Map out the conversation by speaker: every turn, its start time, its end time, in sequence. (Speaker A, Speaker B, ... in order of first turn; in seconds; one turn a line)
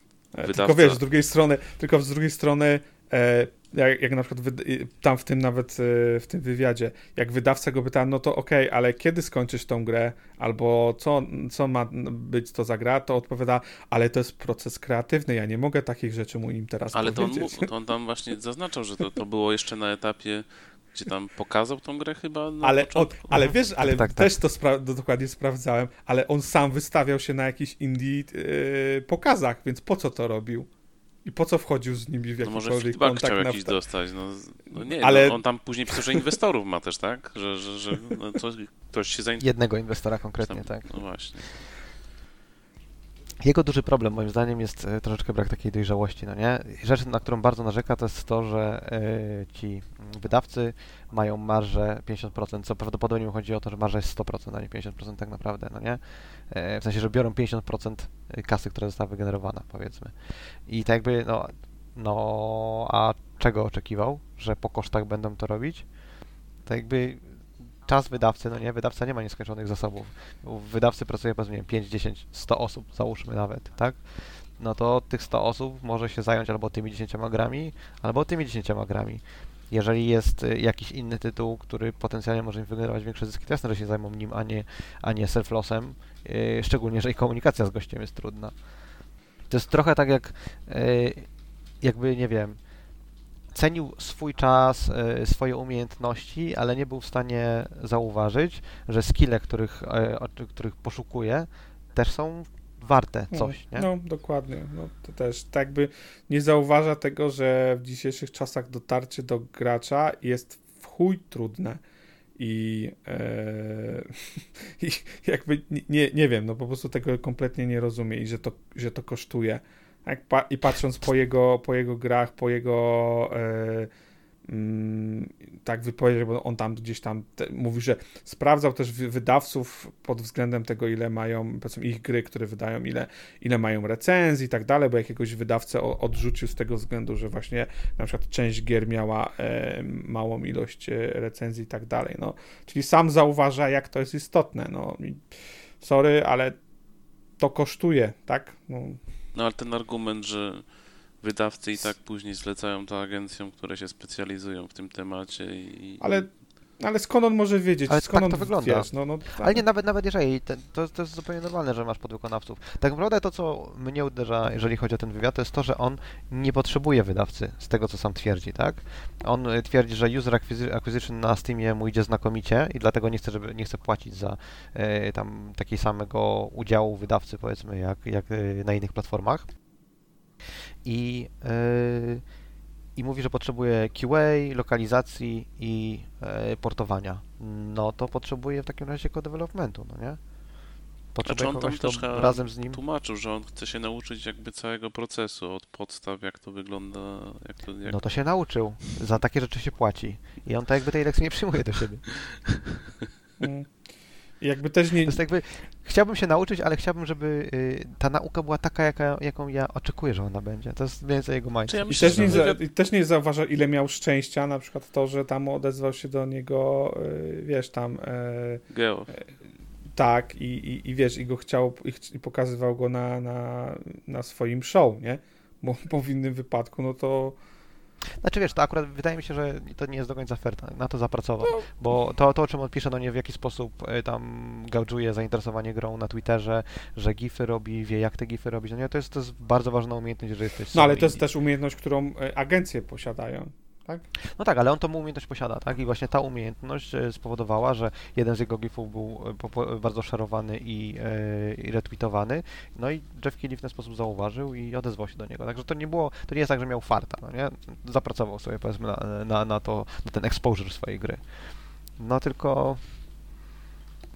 Speaker A: 0.3-17.7
Speaker B: 0.4-1.0
Speaker B: 16.9-23.4
Speaker A: 22.6-30.7
Speaker C: 23.3-24.3
Speaker A: 31.2-33.8
Speaker B: 32.4-39.7
Speaker A: 34.7-36.2
Speaker C: 39.4-41.0
Speaker B: 40.4-41.7
Speaker C: 43.4-65.9
Speaker C: 66.6-88.5
Speaker C: 89.5-91.3
Speaker C: 91.8-92.6
Speaker C: 93.5-103.9
Speaker A: 103.3-111.8
Speaker A: 112.4-123.9
Speaker A: 124.5-146.6
Speaker A: 147.4-149.0
Speaker B: 149.3-150.7
Speaker B: 151.2-156.2
Speaker A: 156.0-159.6
Speaker C: 157.9-179.5
Speaker C: 180.8-182.2
Speaker C: 182.9-190.2
Speaker C: 191.1-192.8
Speaker B: 191.2-198.2
Speaker C: 197.8-202.6
Speaker A: 203.4-205.2
Speaker C: 205.0-212.4
Speaker B: 211.7-212.6
Speaker A: 211.9-219.3
Speaker B: 218.7-219.1
Speaker A: 219.9-227.4
Speaker C: 228.2-241.2
Speaker A: 240.7-244.1
Speaker C: 244.2-262.9